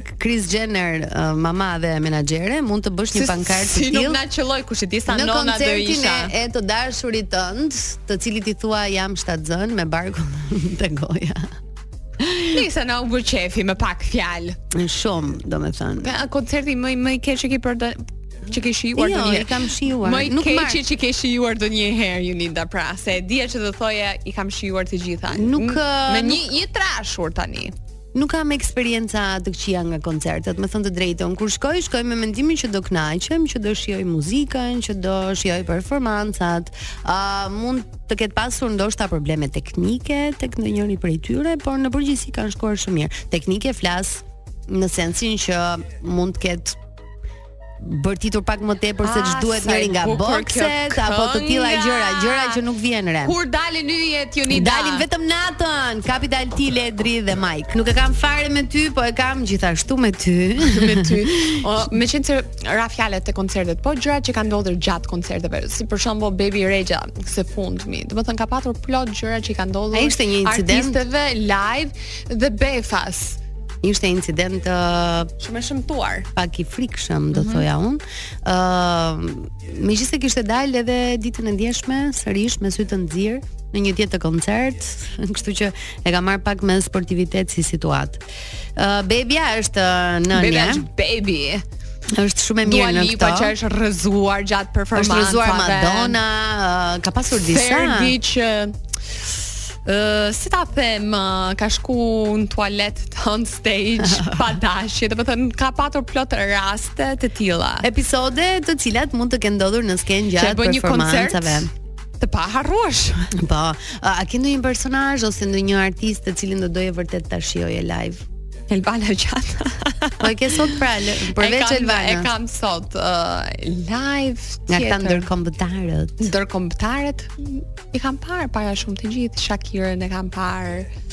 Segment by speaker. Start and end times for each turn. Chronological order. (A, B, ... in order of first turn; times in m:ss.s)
0:00.2-0:04.2 A
0:03.1-0:06.3 B
0:05.1-0:11.5 A
0:12.2-0:12.6 A
0:12.5-0:14.6 B
0:14.7-0:16.1 A
0:16.0-0:19.5 B
0:19.0-0:20.8 A
0:20.0-0:27.7 B
0:25.3-0:26.4 A
0:28.1-0:46.8 A
0:47.8-0:53.3 A
0:49.0-0:52.6 B
0:53.2-0:55.0 B
0:54.5-1:01.6 A
1:00.6-1:13.4 B
1:09.9-1:11.0 A
1:13.8-1:15.3 A
1:15.4-1:16.3 B
1:16.4-1:28.2 A
1:17.3-1:17.6 B
1:28.8-1:30.8 A
1:30.3-1:31.6 B
1:32.1-1:33.5 A
1:32.6-1:36.2 B
1:34.9-1:38.1 A
1:37.5-1:38.8 B
1:39.8-1:47.8 B
1:44.0-1:44.5 A
1:47.8-1:51.7 A
1:50.4-1:51.7 B
1:52.2-1:53.3 B
1:53.4-1:58.2 A
1:58.7-2:00.7 B
2:00.2-2:02.3 A
2:01.4-2:05.3 B
2:04.7-2:06.3 A
2:06.2-2:10.9 B